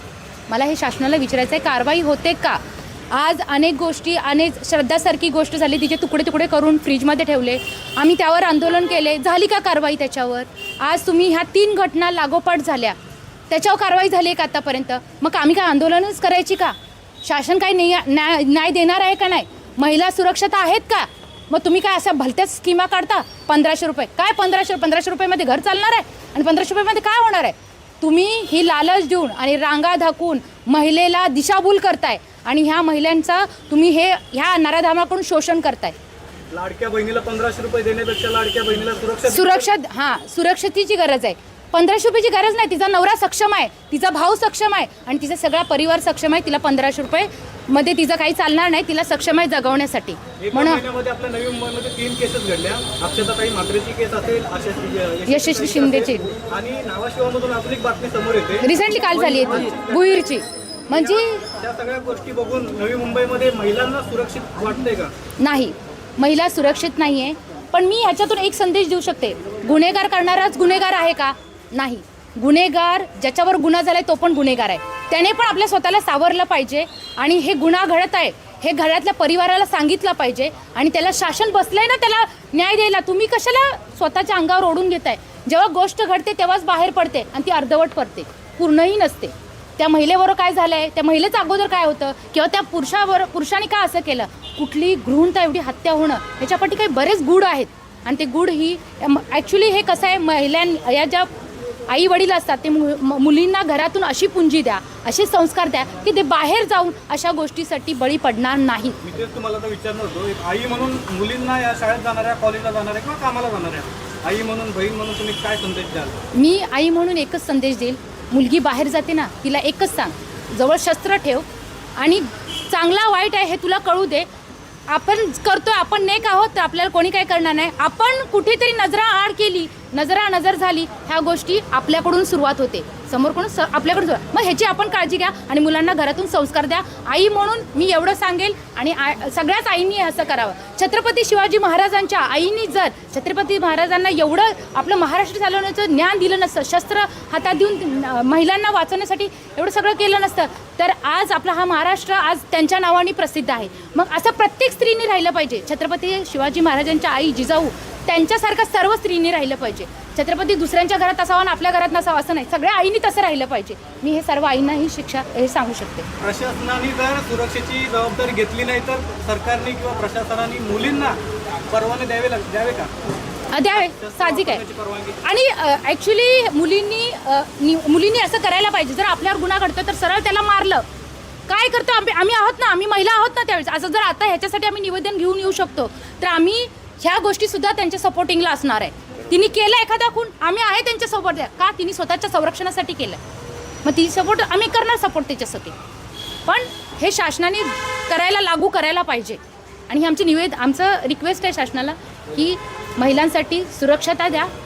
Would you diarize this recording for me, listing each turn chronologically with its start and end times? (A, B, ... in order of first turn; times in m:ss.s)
0:00.5-0:02.6 A
0:03.1-0:13.0 A
0:13.5-0:36.0 A
0:36.5-0:39.7 B
0:39.3-0:50.8 A
0:50.4-1:00.3 B
0:55.3-0:56.3 A
0:58.6-1:01.5 A
1:00.9-1:05.1 B
1:05.4-1:41.3 A
1:41.9-1:49.0 A
1:49.0-1:56.2 B
1:56.3-2:01.5 A
2:02.0-2:04.3 A
2:04.9-2:46.1 A
2:46.2-2:51.2 B
2:51.7-2:52.9 B
2:53.5-2:54.6 A
2:53.9-2:55.2 B
2:55.2-3:00.8 A
3:01.5-3:13.2 A
3:13.8-3:15.8 A
3:16.5-3:24.5 A